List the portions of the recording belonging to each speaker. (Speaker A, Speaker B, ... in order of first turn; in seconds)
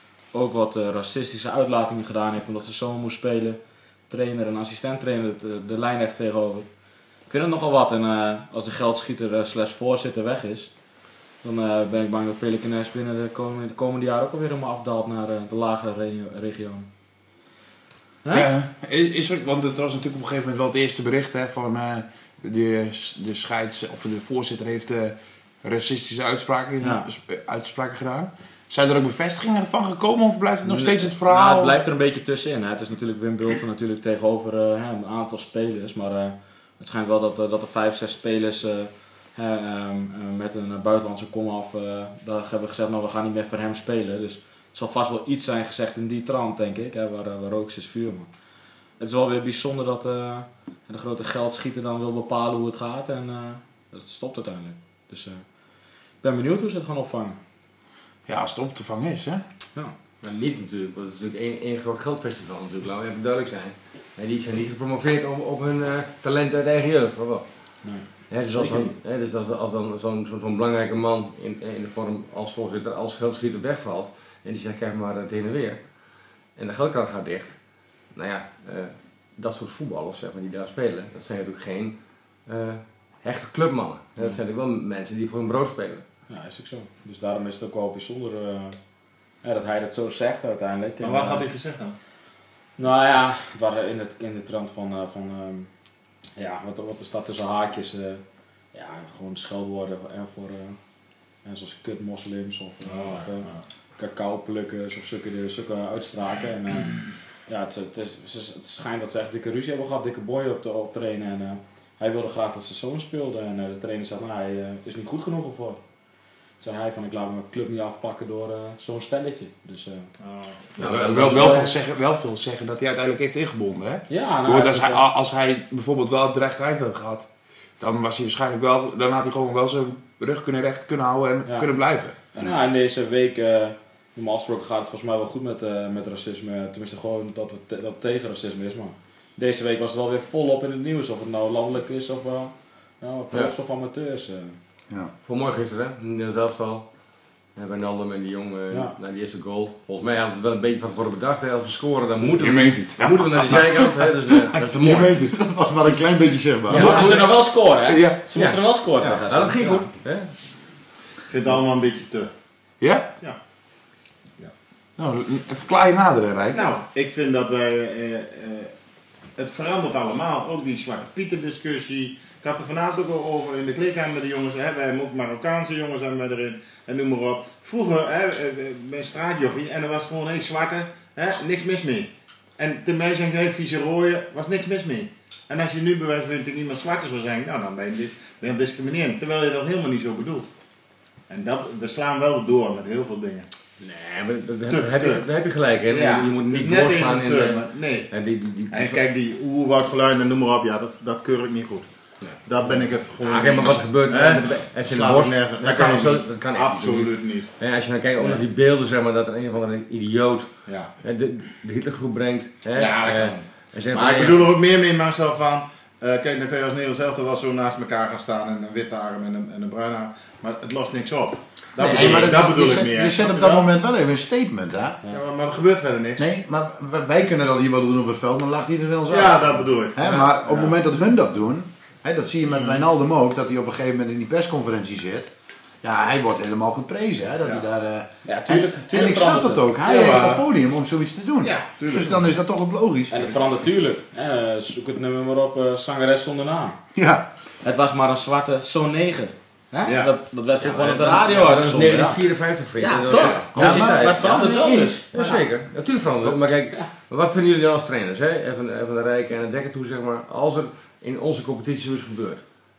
Speaker A: 0.3-6.7, 7.3-10.7, 11.4-16.9, 26.8-27.1, 31.2-48.3, 49.0-55.4, 56.2-57.4, 67.8-68.9, 86.3-88.8, 89.4-91.5, 92.8-95.7, 96.4-98.2, 98.7-100.8, 101.5-103.5, 104.0-115.8, 116.6-120.1, 121.2-121.7, 124.1-125.0, 131.5-144.6, 156.7-159.9, 238.3-239.7, 243.1-246.8, 247.6-252.2, 252.8-255.1
Speaker B: 18.3-31.8, 58.3-59.4, 121.0-127.3, 127.8-132.3, 152.3-154.0, 154.9-155.4, 156.7-158.3, 162.8-163.1, 165.0-166.6
Speaker C: 30.7-30.9, 60.2-67.5, 68.3-75.8, 76.6-77.5, 78.1-86.0, 120.8-121.7, 145.2-146.9, 147.6-155.2, 156.7-157.3, 158.3-160.3, 193.8-199.0, 202.2-214.6, 221.8-222.3, 250.6-254.3, 255.1-262.4
Speaker D: 91.0-92.0, 102.9-103.6, 120.2-121.3, 161.3-162.3, 166.5-168.7, 169.4-190.5, 191.3-193.5, 194.7-195.2, 195.9-198.1, 198.7-201.9, 202.4-207.5, 212.7-223.7, 225.1-226.3, 229.1-230.8, 232.5-232.8, 239.8-240.4, 241.6-242.2, 249.8-250.1
Speaker E: 154.6-157.0, 221.8-225.0, 226.2-243.4, 246.9-247.3, 253.6-255.4